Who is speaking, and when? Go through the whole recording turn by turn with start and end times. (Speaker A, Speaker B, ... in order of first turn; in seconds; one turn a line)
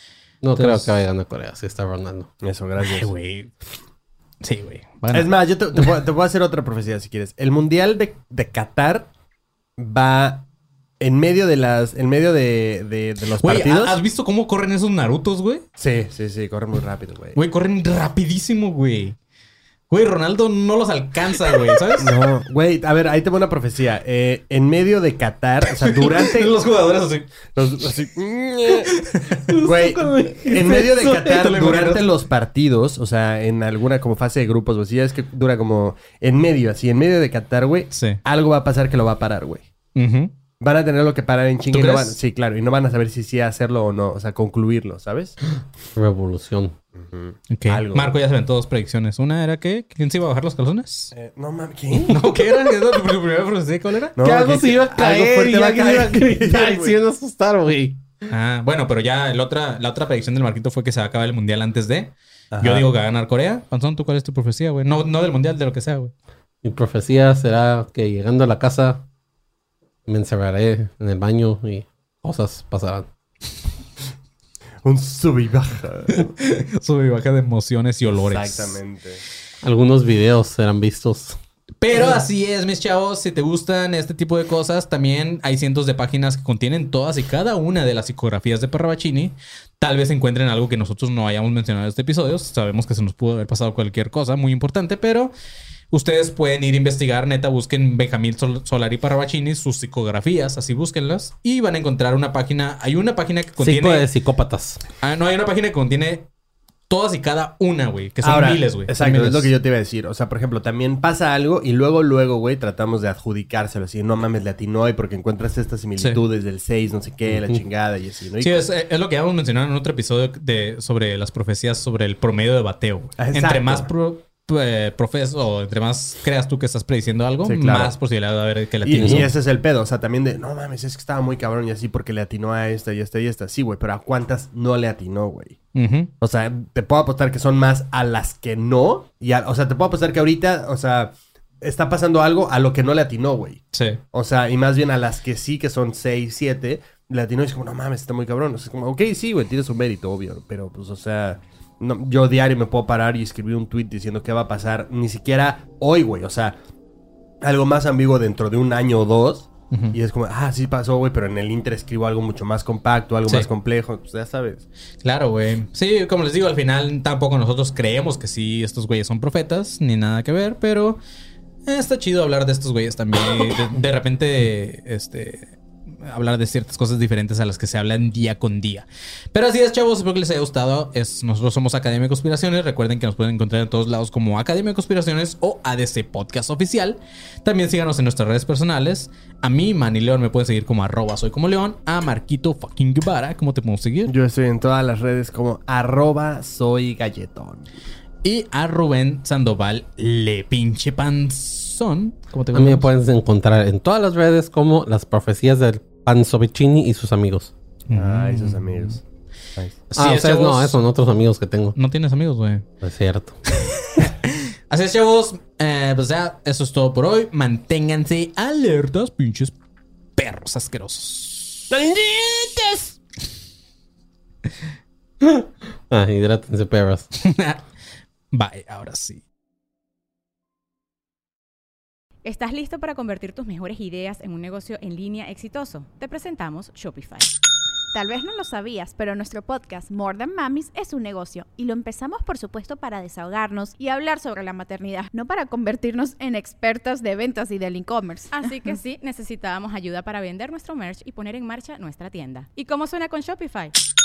Speaker A: 0.4-2.3
Speaker B: 0.5-0.9
Speaker C: 2.4-3.1
Speaker B: 2.8-3.5
Speaker B: 4.4-5.3
Speaker C: 5.1-9.1
Speaker C: 9.8-10.5
Speaker C: 11.0-14.0
Speaker B: 13.4-15.6
Speaker C: 15.8-17.4
Speaker B: 17.3-19.1
Speaker B: 19.9-22.1
Speaker C: 22.0-26.6
Speaker B: 25.7-27.3
Speaker C: 27.5-28.9
Speaker B: 28.9-29.4
Speaker A: 29.5-31.5
Speaker C: 29.6-39.6
Speaker B: 31.2-32.1
Speaker B: 37.9-38.2
Speaker B: 39.9-40.3
Speaker C: 40.6-45.4
Speaker B: 41.7-42.1
Speaker A: 45.9-46.8
Speaker C: 47.0-48.1
Speaker B: 47.5-51.1
Speaker C: 51.1-52.2
Speaker B: 52.1-54.2
Speaker C: 54.1-57.0
Speaker A: 54.2-58.0
Speaker B: 58.3-66.1
Speaker C: 62.5-62.9
Speaker A: 66.6-69.0
Speaker A: 70.0-73.1
Speaker C: 74.8-76.3
Speaker B: 76.4-78.8
Speaker C: 78.1-79.2
Speaker A: 79.6-81.4
Speaker B: 81.8-95.3
Speaker B: 95.9-104.1
Speaker A: 103.6-104.8
Speaker B: 105.0-106.3
Speaker B: 106.9-109.5
Speaker C: 108.2-118.6
Speaker A: 117.3-117.6
Speaker B: 118.4-129.3
Speaker C: 123.2-123.9
Speaker C: 127.4-127.9
Speaker C: 128.8-135.6
Speaker A: 129.0-129.3
Speaker B: 135.7-136.1
Speaker C: 136.2-156.6
Speaker B: 143.7-144.0
Speaker C: 157.4-164.7
Speaker B: 165.0-171.0
Speaker B: 171.7-194.1
Speaker C: 194.1-197.7
Speaker B: 198.2-202.9
Speaker A: 202.5-207.5
Speaker B: 207.9-209.0
Speaker C: 207.9-209.0
Speaker B: 209.9-210.8
Speaker A: 209.9-211.7
Speaker B: 211.8-212.6
Speaker A: 212.8-213.4
Speaker B: 213.6-219.5
Speaker B: 220.2-221.7
Speaker C: 221.7-222.9
Speaker A: 225.2-227.1
Speaker B: 227.2-227.6
Speaker B: 228.3-229.2
Speaker D: 232.2-237.3
Speaker E: 237.9-248.7
Speaker D: 248.3-253.7